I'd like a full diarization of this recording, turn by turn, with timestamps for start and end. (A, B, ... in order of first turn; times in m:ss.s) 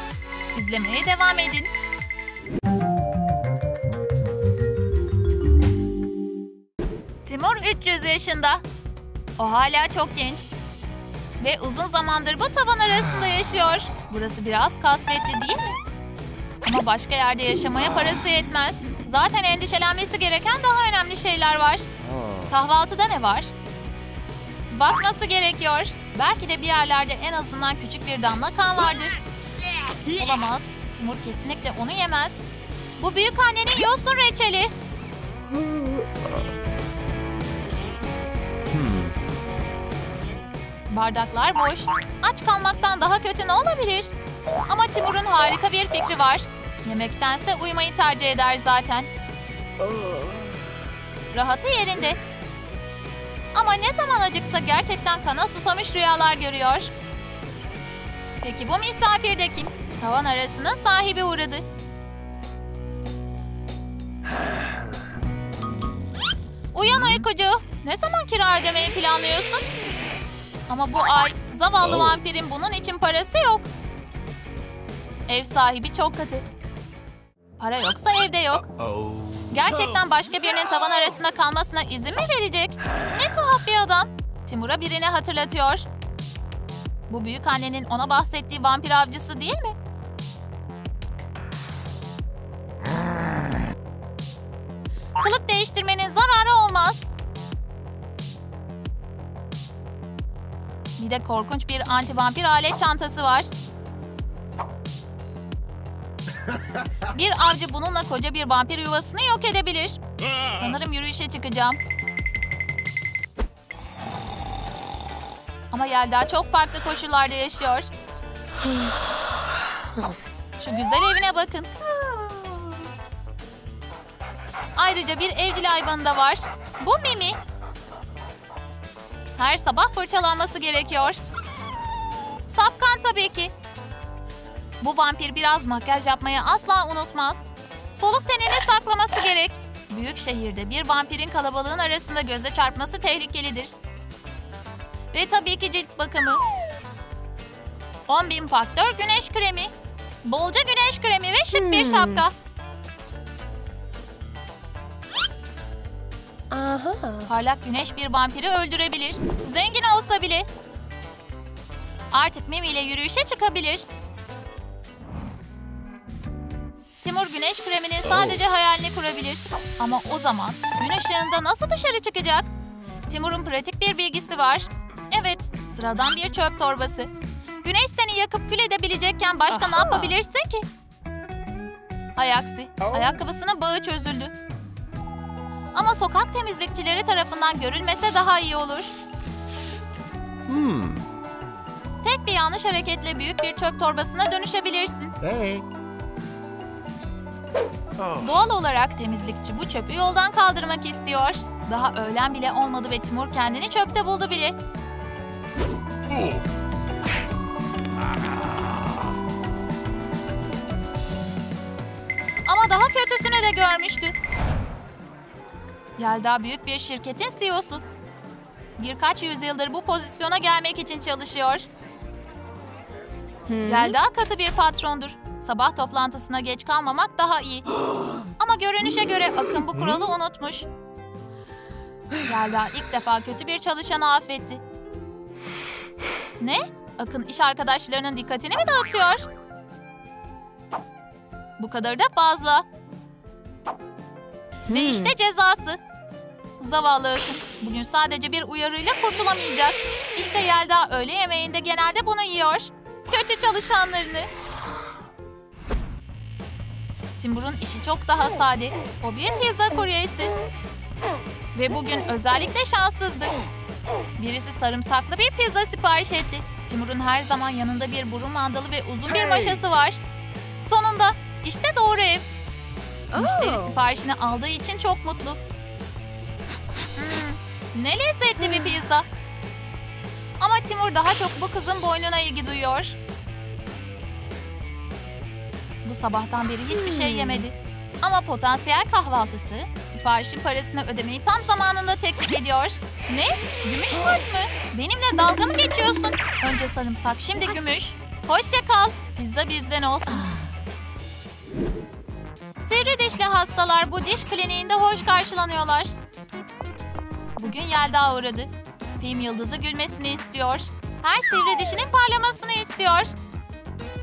0:00.5-0:01.7 A
0:07.2-0:08.6 A
0:09.4-0:10.5 A
0:11.4-0:15.8 A
0:16.6-0:21.9 A
0:22.0-0:22.5 B
0:22.5-0:23.5 A
0:24.7-0:29.2 A
0:30.0-0:32.4 A
0:33.0-0:34.7 A
0:38.7-0:39.1 B
0:40.9-0:44.1 A
0:44.7-0:49.1 A
0:51.3-0:52.2 A
0:53.5-0:56.9 A
0:58.4-1:01.6 A
1:06.7-1:09.7 A
1:10.7-1:13.7 A
1:15.3-1:16.4 A
1:17.6-1:18.8 A
1:18.8-1:19.5 B
1:19.5-1:25.8 A
1:27.1-1:29.8 A
1:35.2-1:37.0 A
1:41.0-1:43.5 A
1:47.0-1:51.8 A
1:55.7-1:57.9 A
2:00.6-2:01.7 A
2:04.8-2:07.4 A
2:09.4-2:11.2 A
2:12.5-2:13.5 A
2:14.8-2:23.7 A
2:25.1-2:26.4 A
2:28.1-2:29.7 A
2:30.2-2:32.3 A
2:31.5-2:32.3 C
2:36.5-2:37.3 C
2:37.3-2:40.5 A
2:42.1-2:43.9 A
2:47.0-2:52.5 A
2:53.1-2:57.1 A
2:57.6-3:00.7 A
2:59.5-3:00.2 C
3:02.2-3:04.3 A
3:05.7-3:09.0 A
3:10.5-3:11.0 B
3:12.0-3:15.2 A
3:15.2-3:15.6 B
3:18.2-3:24.6 A
3:32.5-3:34.2 A
3:36.0-3:37.8 A
3:38.8-3:41.7 A
3:43.5-3:43.9 C
3:43.6-3:47.7 A
3:48.4-3:50.7 A
3:52.2-3:54.6 A
3:56.4-3:59.3 A
4:01.6-4:02.7 A
4:04.7-4:05.8 A
4:04.7-4:05.2 C
4:06.6-4:14.3 A
4:17.2-4:20.3 A
4:21.6-4:23.3 A
4:24.2-4:30.0 A
4:30.6-4:32.2 A
4:33.1-4:33.8 C
4:33.1-4:35.4 A
4:37.0-4:39.1 A
4:40.4-4:43.0 A
4:45.8-5:00.4 A
4:46.8-4:47.4 C
5:02.6-5:06.0 A
5:07.4-5:13.1 A